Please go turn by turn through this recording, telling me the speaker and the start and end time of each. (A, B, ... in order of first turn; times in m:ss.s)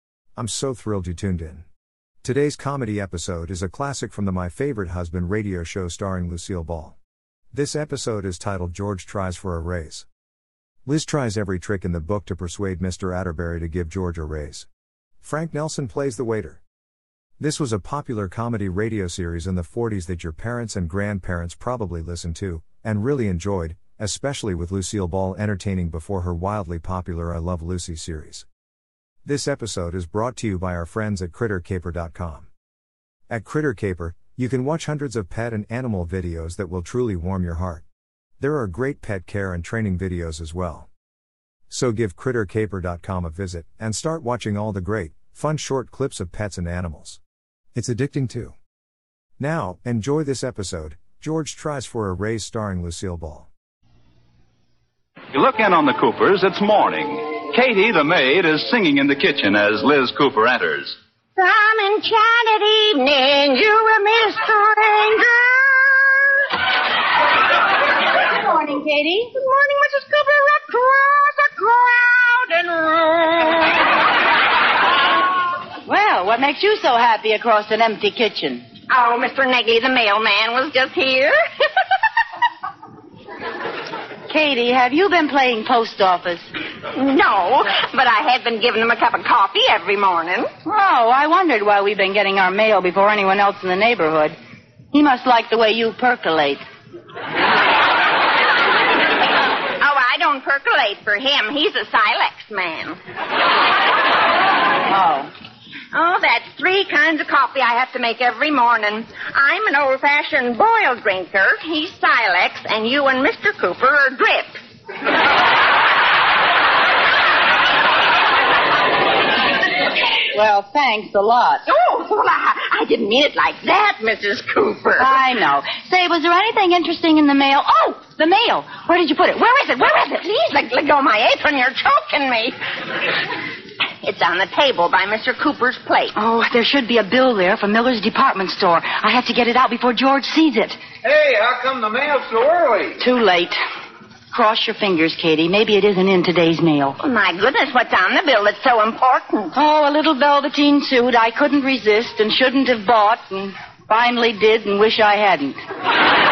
0:00.4-0:01.6 A
0:02.2-0:07.0 A
0:07.5-0:10.1 A
0:10.8-0:14.7 A
0:15.2-0:16.6 A
0:17.4-0:28.5 A
0:29.2-0:32.5 A
0:33.3-0:37.8 A
0:38.4-0:40.9 A
0:41.7-0:47.2 A
0:47.7-0:48.6 A
0:49.4-0:53.5 A
0:55.3-1:01.0 B
1:01.4-1:06.2 C
1:08.4-1:09.3 D
1:09.4-1:13.9 C
1:15.9-1:18.6 D
1:18.9-1:21.4 C
1:24.3-1:26.4 D
1:26.9-1:30.5 C
1:30.6-1:34.4 D
1:34.9-1:36.6 D
1:39.8-1:43.0 C
1:44.9-1:45.3 D
1:45.9-1:54.6 C
2:00.3-2:01.7 D
2:01.7-2:05.2 C
2:05.0-2:09.6 D
2:09.5-2:12.6 C
2:14.0-2:16.1 C
2:16.1-2:20.8 D
2:21.0-2:23.0 E
2:23.0-2:23.6 D
2:24.3-2:27.0 D
2:27.0-2:29.5 C
2:29.5-2:35.6 D